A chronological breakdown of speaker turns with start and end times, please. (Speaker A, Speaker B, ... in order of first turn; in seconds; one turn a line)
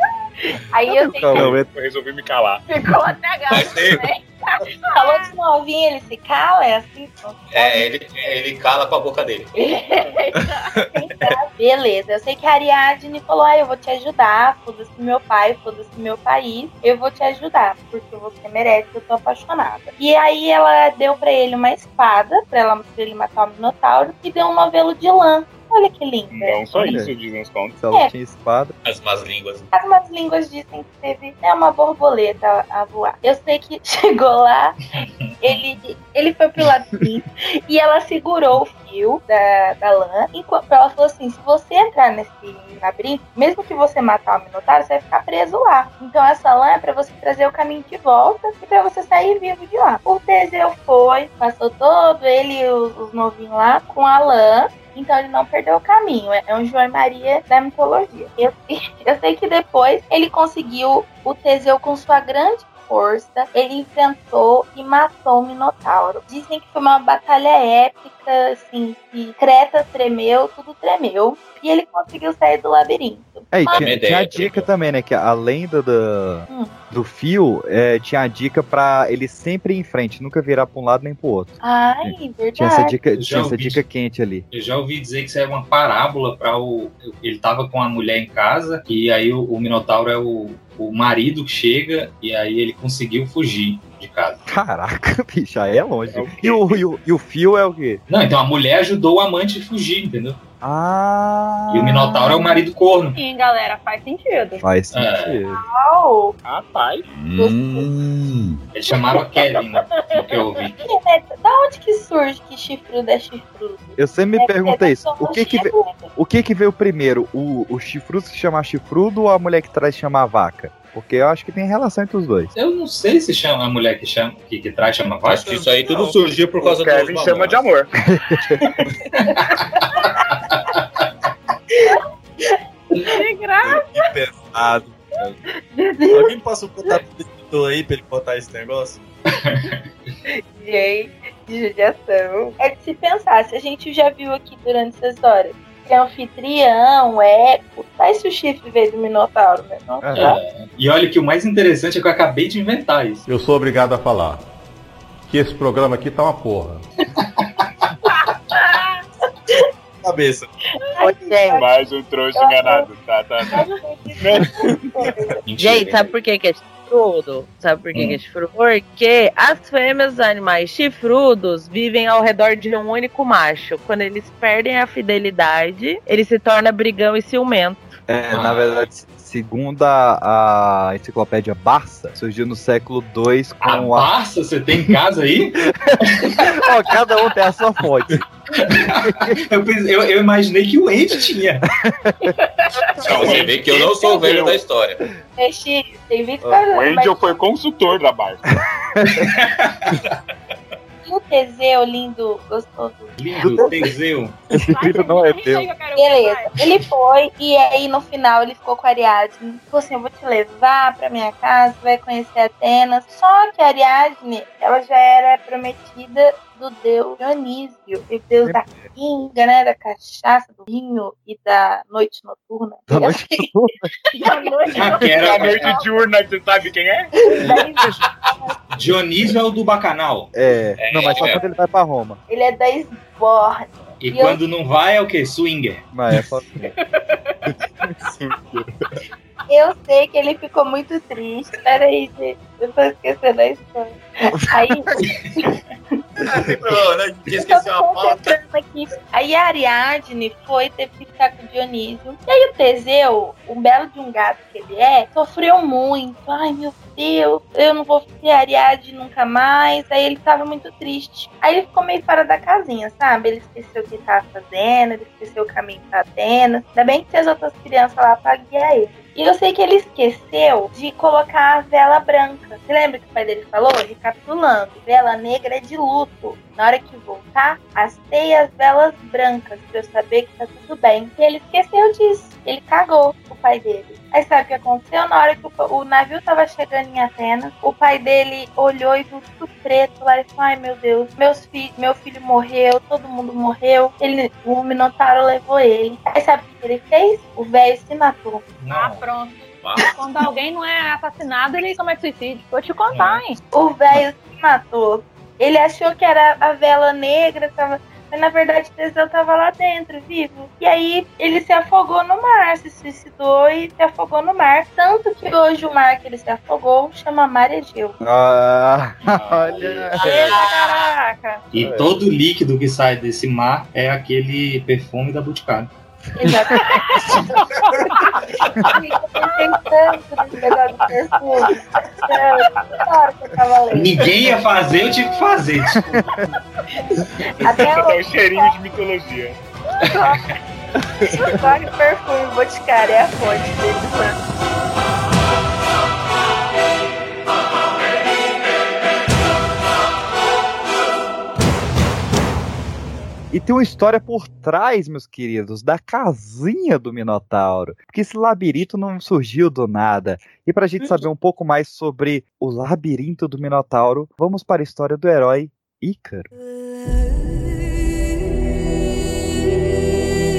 Speaker A: 0.7-1.5
Speaker B: 0.9-1.6
Speaker C: 1.3-2.6
Speaker D: 2.7-5.2
Speaker E: 3.5-4.1
Speaker A: 4.9-7.9
Speaker E: 7.5-9.6
Speaker D: 9.6-10.7
Speaker A: 10.9-26.9
Speaker C: 26.3-27.8
Speaker B: 26.7-27.1
Speaker B: 27.8-28.7
Speaker E: 28.8-29.7
Speaker A: 29.7-34.8
Speaker F: 34.9-35.4
Speaker A: 35.4-73.9
Speaker B: 73.5-84.4
Speaker E: 73.7-74.7
Speaker A: 81.6-82.9
Speaker F: 83.2-83.8
Speaker F: 84.5-94.4
Speaker B: 94.5-98.0
Speaker C: 96.1-96.8
Speaker F: 98.1-100.4
Speaker B: 100.6-102.4
Speaker F: 101.7-103.2
Speaker D: 103.2-104.6
Speaker B: 104.6-105.6
Speaker F: 104.9-105.4
Speaker A: 105.5-106.3
Speaker C: 106.4-107.0
Speaker E: 107.1-108.6
Speaker A: 107.4-107.9
Speaker F: 108.7-110.8
Speaker A: 110.8-116.0
Speaker B: 114.0-122.5
Speaker F: 122.5-125.5
Speaker E: 125.2-127.6
Speaker B: 125.5-126.2
Speaker C: 126.6-127.9
Speaker B: 128.1-128.6
Speaker F: 129.2-130.8
Speaker A: 131.8-133.1
Speaker D: 133.1-133.8
Speaker B: 133.7-135.3
Speaker A: 135.7-137.0
Speaker G: 136.1-139.0
Speaker F: 139.3-139.8
Speaker A: 140.4-150.4
Speaker B: 150.0-150.4
Speaker F: 150.1-153.2
Speaker H: 153.3-154.4
Speaker H: 155.3-156.8
Speaker F: 157.2-157.6
Speaker A: 158.6-158.9
Speaker G: 160.0-160.5
Speaker A: 160.9-161.6
Speaker I: 161.0-161.7
Speaker C: 161.5-163.7
Speaker A: 162.3-162.9
Speaker A: 163.5-165.4
Speaker C: 164.2-164.7
Speaker F: 165.4-166.1
Speaker I: 165.6-177.8
Speaker B: 178.1-184.1
Speaker F: 178.3-178.8
Speaker F: 183.6-186.3
Speaker B: 185.8-189.4
Speaker F: 188.6-191.7
Speaker B: 192.1-192.3
Speaker C: 193.0-194.6
Speaker E: 193.0-195.0
Speaker A: 195.4-197.3
Speaker C: 196.7-198.5
Speaker F: 199.1-199.8
Speaker A: 201.0-203.7
Speaker F: 203.2-204.4
Speaker B: 203.4-203.7
Speaker B: 204.5-205.7
Speaker D: 204.7-206.5
Speaker A: 205.9-223.4
Speaker B: 218.4-218.9
Speaker B: 222.9-223.9
Speaker A: 224.2-225.0
Speaker D: 224.2-225.5
Speaker F: 224.8-225.8
Speaker C: 225.0-227.1
Speaker A: 227.2-228.6
Speaker F: 228.7-230.3
Speaker B: 230.3-232.2
Speaker E: 230.8-231.4
Speaker A: 232.3-234.4
Speaker F: 234.0-235.8
Speaker B: 235.9-236.7
Speaker D: 236.9-237.3
Speaker A: 239.5-245.5
Speaker B: 244.3-245.1
Speaker E: 246.2-248.4
Speaker A: 247.3-298.4
Speaker F: 298.6-299.0
Speaker D: 298.7-303.4
Speaker E: 299.6-299.9
Speaker F: 302.9-303.2
Speaker A: 303.5-318.0
Speaker B: 318.0-320.4
Speaker C: 319.4-319.7
Speaker A: 320.0-321.4
Speaker D: 320.0-320.9
Speaker F: 321.5-325.7
Speaker B: 321.5-322.1
Speaker A: 326.1-327.2
Speaker B: 326.5-327.0
Speaker A: 327.9-334.1
Speaker F: 333.7-336.1
Speaker A: 336.7-338.5
Speaker C: 337.4-339.4
Speaker A: 339.8-340.4
Speaker A: 341.1-344.2
Speaker B: 353.3-366.3